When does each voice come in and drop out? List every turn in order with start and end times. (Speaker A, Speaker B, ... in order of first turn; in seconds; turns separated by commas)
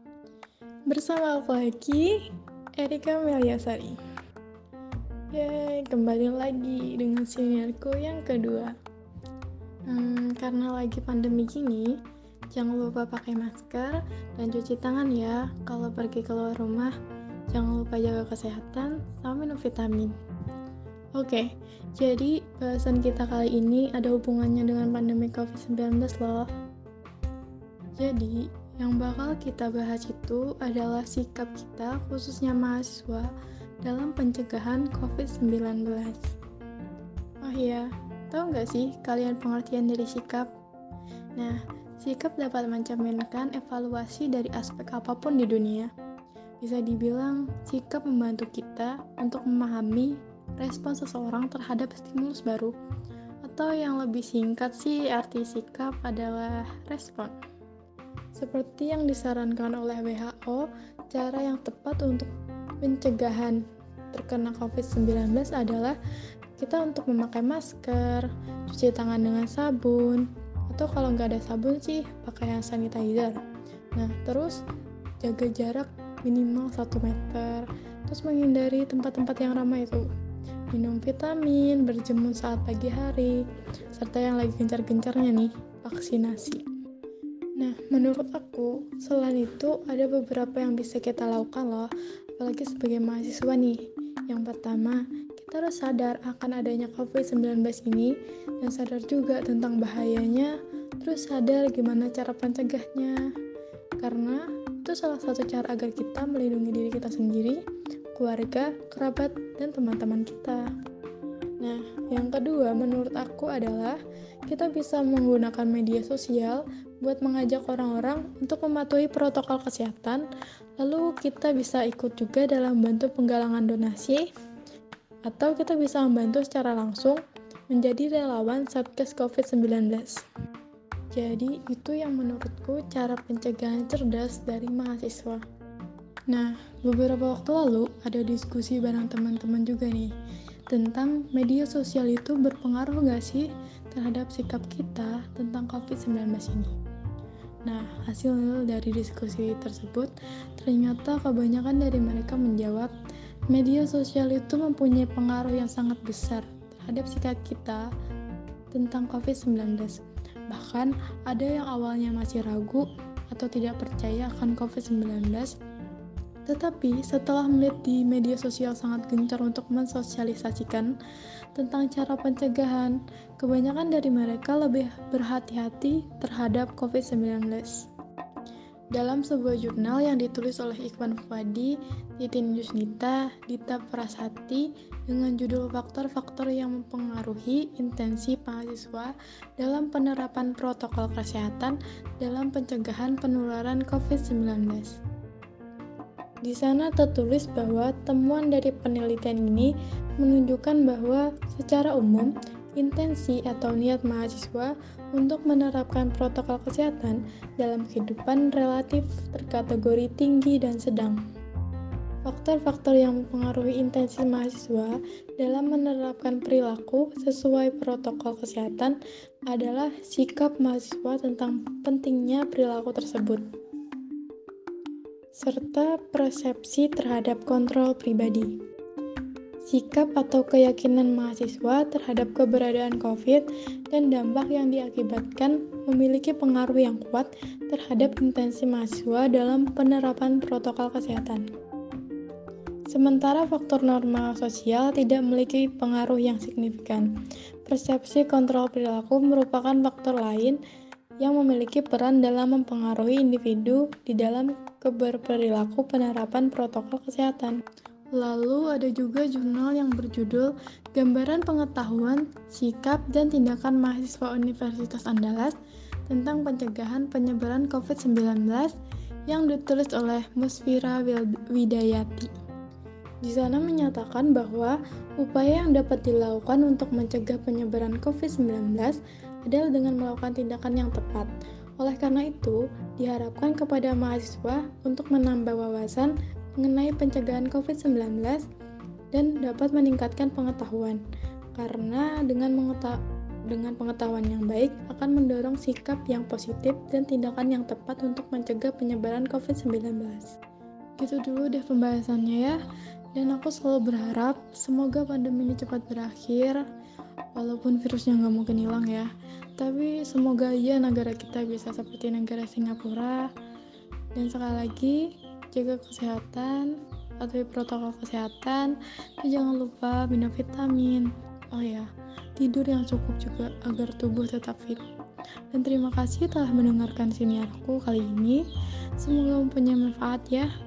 Speaker A: 0.9-4.0, Speaker A: 5.3-8.7, Speaker A: 9.9-12.0, Speaker A: 12.5-16.9, Speaker A: 17.5-20.1, Speaker A: 21.1-26.5, Speaker A: 27.9-33.3, Speaker A: 33.8-36.3, Speaker A: 37.4-40.5, Speaker A: 41.4-45.9, Speaker A: 46.6-52.7, Speaker A: 53.4-57.3, Speaker A: 58.3-62.3, Speaker A: 62.8-65.9, Speaker A: 66.6-73.4, Speaker A: 73.9-74.6, Speaker A: 75.2-80.1, Speaker A: 80.7-86.6, Speaker A: 87.6-103.2, Speaker A: 104.0-107.6, Speaker A: 108.1-110.6, Speaker A: 111.6-120.2, Speaker A: 120.8-124.2, Speaker A: 125.2-130.2, Speaker A: 131.1-135.4, Speaker A: 136.3-140.1, Speaker A: 140.7-146.7, Speaker A: 147.6-152.9, Speaker A: 153.5-157.8, Speaker A: 158.7-165.5, Speaker A: 166.4-170.9, Speaker A: 171.5-177.9, Speaker A: 178.9-195.0, Speaker A: 196.4-211.2, Speaker A: 212.2-219.0, Speaker A: 219.5-223.4, Speaker A: 225.3-228.6, Speaker A: 229.6-241.5, Speaker A: 242.9-247.1, Speaker A: 247.7-250.6, Speaker A: 251.2-257.6, Speaker A: 258.1-265.6, Speaker A: 266.1-268.7, Speaker A: 269.3-272.3, Speaker A: 273.2-288.4, Speaker A: 289.1-291.0, Speaker A: 291.5-300.3, Speaker A: 301.0-302.6, Speaker A: 303.1-306.6, Speaker A: 307.3-313.3, Speaker A: 314.1-324.8, Speaker A: 325.5-328.4, Speaker A: 329.0-330.5